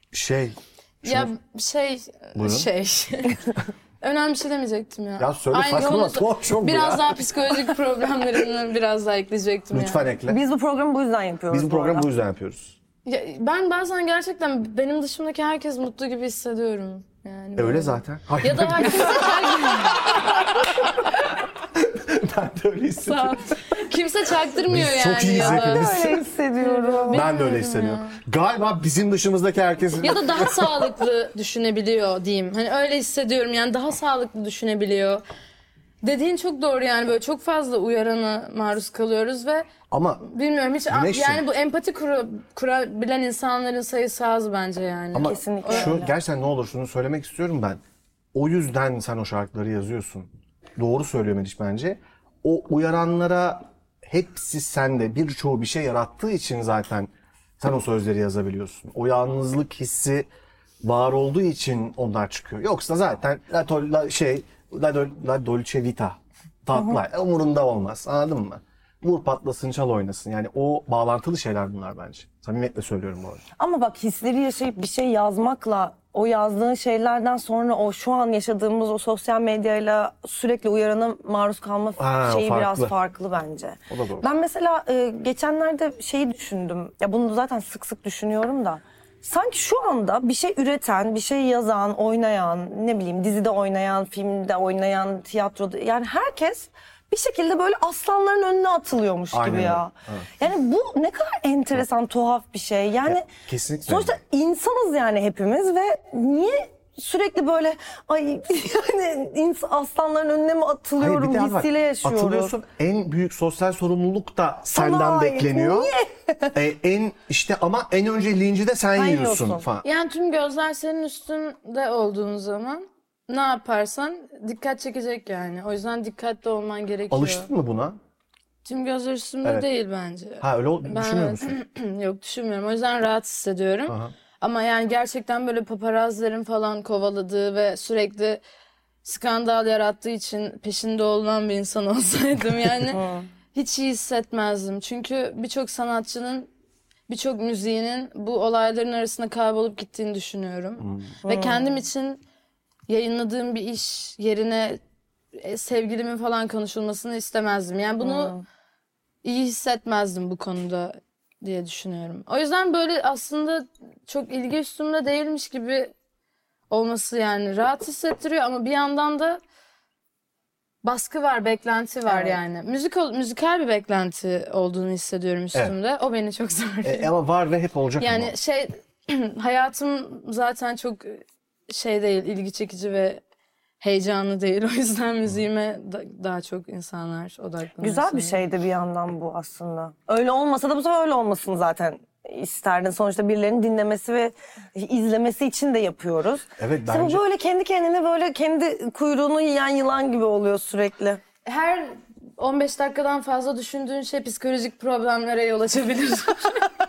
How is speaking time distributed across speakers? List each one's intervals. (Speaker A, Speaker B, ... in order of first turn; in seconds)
Speaker A: 0.1-1.3, 2.4-2.7, 5.2-7.2, 9.7-10.4, 11.5-12.8, 17.6-20.7, 21.7-23.4, 24.7-26.2, 27.1-30.8, 39.9-40.2, 40.9-41.4, 45.1-47.8, 48.3-60.3, 60.8-73.4, 82.0-82.9, 83.9-84.2, 99.3-100.3, 103.0-104.2, 111.0-115.9, 116.5-119.8, 127.1-128.0, 130.4-131.6, 133.9-134.1, 150.8-151.1, 176.8-178.3, 196.6-197.2
Speaker B: 1.0-3.4, 4.0-10.1, 13.0-20.8, 23.0-28.2, 30.0-35.2, 36.0-39.7, 40.2-46.0, 119.8-127.5, 128.6-138.4, 139.0-143.0, 143.5-146.5, 147.1-152.2, 152.9-154.8, 155.3-158.3, 159.2-165.9, 166.7-169.4, 170.8-177.1, 178.0-183.2, 183.8-188.4, 201.4-206.7
Speaker C: 10.3-12.1, 25.4-27.2, 45.2-46.1, 73.6-103.3, 103.8-112.5, 114.7-116.5, 119.0-119.6, 142.9-143.3, 151.2-151.8, 158.0-158.4, 172.1-172.4, 187.8-201.2